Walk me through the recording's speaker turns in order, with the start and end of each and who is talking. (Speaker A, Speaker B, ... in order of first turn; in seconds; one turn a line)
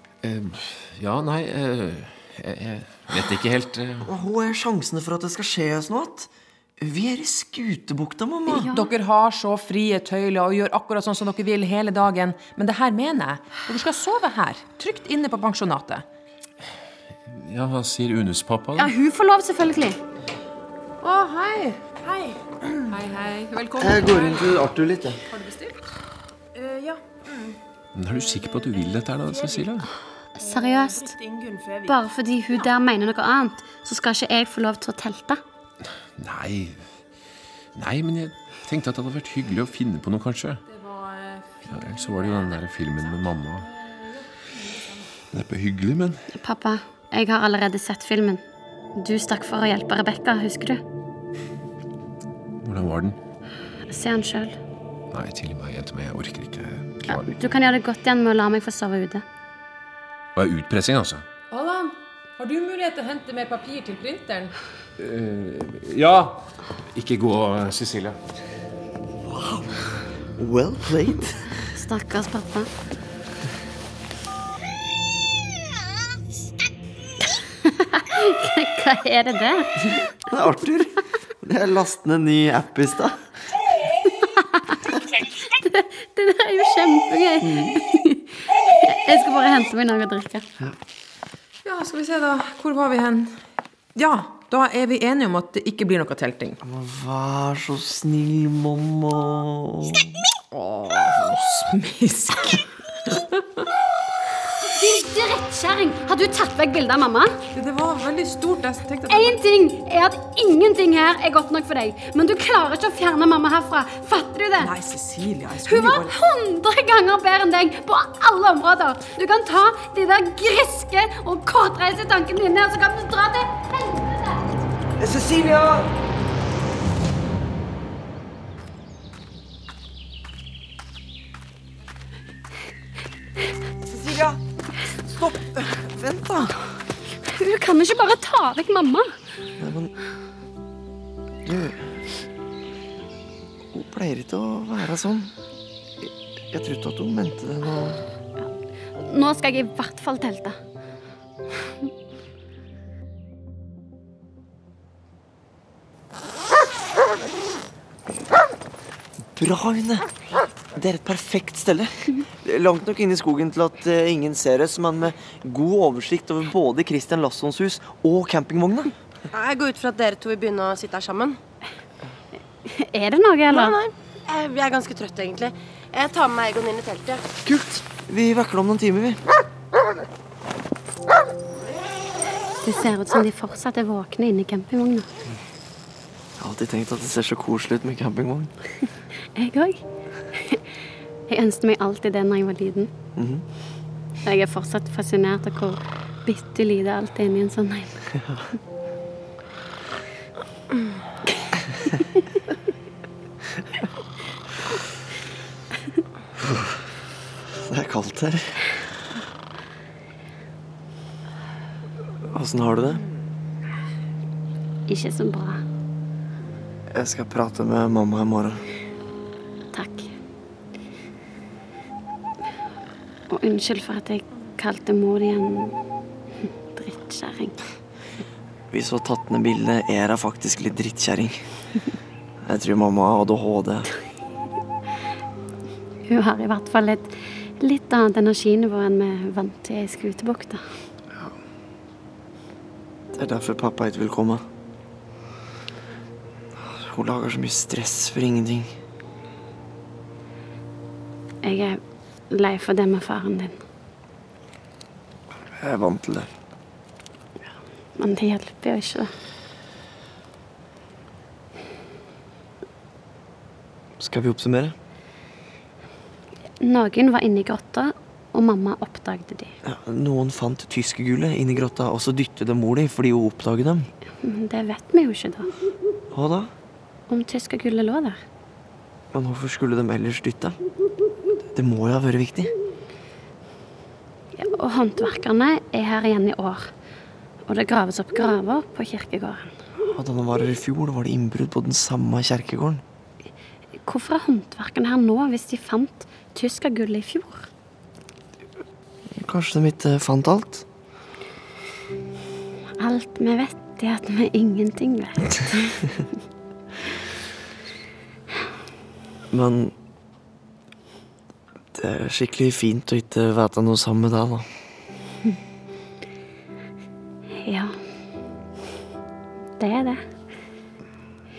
Speaker A: 0.2-4.1
Speaker B: 4.0-8.7
Speaker C: 8.5-8.9
Speaker D: 8.6-16.1
Speaker A: 17.3-18.9
Speaker C: 18.8-20.0
Speaker D: 21.0-21.8
Speaker E: 22.0-22.4
Speaker D: 22.9-24.6
Speaker B: 23.8-25.2
Speaker D: 25.3-25.8
Speaker E: 26.5-27.5
Speaker A: 27.9-29.9
Speaker C: 30.4-31.1
Speaker E: 30.4-31.9
Speaker C: 31.9-35.4
Speaker A: 36.2-36.9
Speaker A: 37.7-40.6
Speaker D: 40.7-42.4
Speaker A: 41.6-43.7
Speaker A: 45.3-46.2
Speaker C: 46.3-48.4
Speaker C: 49.0-50.8
Speaker A: 52.6-53.2
Speaker C: 53.9-54.5
Speaker A: 55.1-57.3
Speaker C: 57.0-59.2
Speaker A: 60.4-61.2
Speaker D: 61.5-64.5
Speaker A: 65.0-68.2
Speaker B: 69.3-69.7
Speaker B: 70.3-71.5
Speaker C: 71.7-72.7
Speaker C: 77.6-79.9
Speaker B: 79.9-83.2
Speaker C: 85.5-90.5
Speaker B: 87.4-87.8
Speaker D: 91.6-93.4
Speaker D: 93.9-96.6
Speaker B: 96.6-100.2
Speaker D: 100.5-102.6
Speaker C: 104.7-107.3
Speaker D: 107.5-109.4
Speaker C: 109.1-114.7
Speaker D: 114.6-116.1
Speaker C: 115.7-124.5
Speaker B: 125.0-125.9
Speaker B: 133.9-134.4
Speaker B: 135.1-136.6
Speaker C: 137.2-139.1
Speaker B: 139.6-139.9
Speaker B: 141.4-141.9
Speaker B: 143.7-145.3
Speaker B: 146.0-148.0
Speaker C: 149.0-150.6
Speaker B: 159.3-160.1
Speaker B: 160.7-168.9
Speaker E: 169.3-171.4
Speaker C: 172.7-173.8
Speaker E: 173.5-177.2
Speaker B: 177.4-179.2
Speaker C: 182.6-185.1
Speaker B: 186.4-188.5
Speaker C: 189.3-189.8
Speaker C: 190.3-190.6
Speaker C: 191.3-192.9
Speaker B: 193.2-193.4
Speaker C: 194.2-198.1
Speaker B: 207.5-208.6
Speaker B: 212.3-213.0
Speaker C: 214.9-215.6
Speaker B: 216.9-218.6
Speaker C: 219.7-220.1
Speaker C: 223.3-225.7
Speaker C: 226.4-227.6
Speaker B: 228.7-231.4
Speaker B: 232.4-233.9
Speaker C: 236.1-240.6
Speaker B: 243.1-244.4
Speaker B: 246.6-248.7
Speaker C: 251.4-251.8
Speaker C: 252.3-253.6
Speaker B: 255.6-256.3
Speaker C: 258.0-259.1
Speaker B: 264.0-264.7
Speaker C: 266.6-269.5
Speaker B: 269.6-273.9
Speaker C: 274.2-275.5
Speaker B: 276.1-276.5
Speaker C: 277.1-278.2
Speaker B: 279.1-280.6
Speaker B: 281.5-282.5
Speaker C: 284.4-286.7
Speaker C: 287.5-289.5
Speaker B: 289.9-292.8
Speaker C: 293.9-297.5
Speaker B: 299.2-300.6
Speaker C: 302.8-305.9
Speaker B: 309.3-309.7
Speaker B: 311.7-314.5
Speaker C: 317.4-317.7
Speaker C: 319.6-320.0